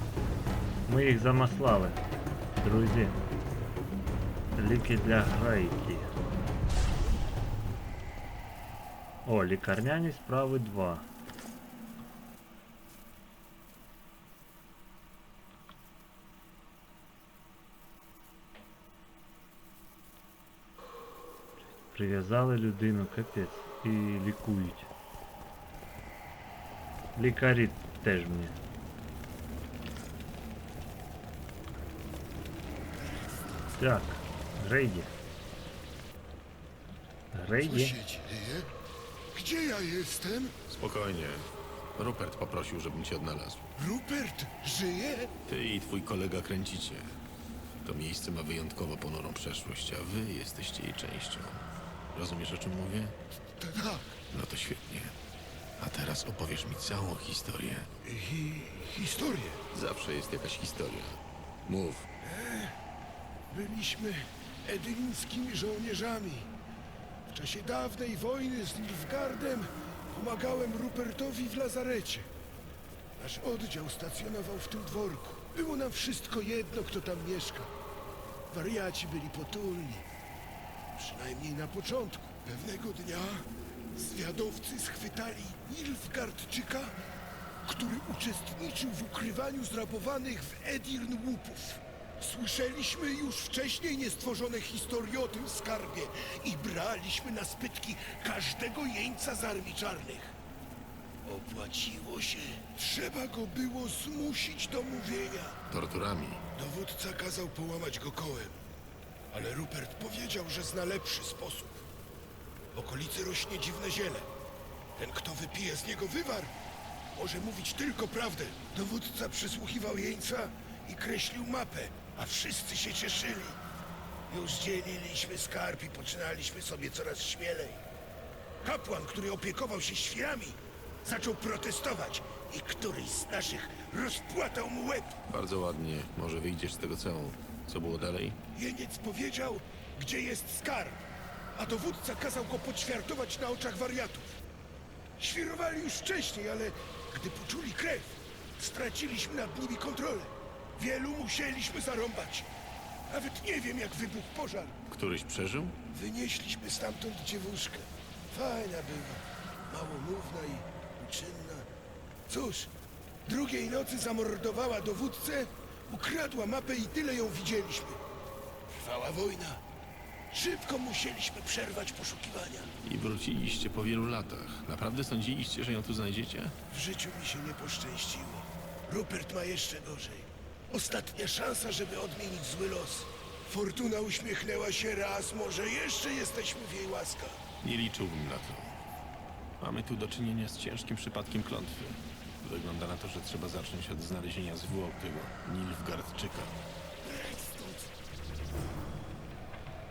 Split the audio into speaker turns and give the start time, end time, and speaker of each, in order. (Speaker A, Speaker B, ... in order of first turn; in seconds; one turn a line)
Speaker A: 0.9-2.0
Speaker A: 2.5-3.2
Speaker A: 4.5-6.1
Speaker A: 9.2-11.1
Speaker A: 21.9-24.9
Speaker A: 27.1-28.6
Speaker A: 33.8-35.1
Speaker A: 37.3-38.0
Speaker B: 37.6-38.7
Speaker B: 39.3-40.5
Speaker C: 40.7-43.6
Speaker B: 43.8-45.3
Speaker C: 45.5-47.2
Speaker C: 47.8-53.1
Speaker B: 53.6-54.2
Speaker C: 54.3-55.1
Speaker C: 55.8-57.9
Speaker B: 58.0-59.6
Speaker C: 59.7-62.1
Speaker B: 62.2-62.8
Speaker B: 63.5-66.5
Speaker B: 67.3-72.3
Speaker B: 73.2-77.7
Speaker B: 78.5-80.0
Speaker B: 80.9-87.0
Speaker B: 87.6-100.3
Speaker B: 101.2-105.6
Speaker C: 105.7-106.4
Speaker B: 106.5-108.6
Speaker B: 109.3-111.8
Speaker B: 112.7-114.3
Speaker B: 115.0-116.5
Speaker B: 117.1-123.6
Speaker B: 124.3-127.8
Speaker B: 128.6-135.2
Speaker C: 135.3-138.4
Speaker B: 138.5-144.3
Speaker B: 145.2-152.5
Speaker B: 153.1-154.8
Speaker C: 154.9-155.7
Speaker B: 155.9-161.7
Speaker B: 162.3-162.7
Speaker B: 163.2-168.0
Speaker B: 168.7-169.6
Speaker B: 170.3-172.7
Speaker C: 172.8-176.5
Speaker B: 176.7-187.4
Speaker C: 187.6-188.7
Speaker C: 189.6-196.6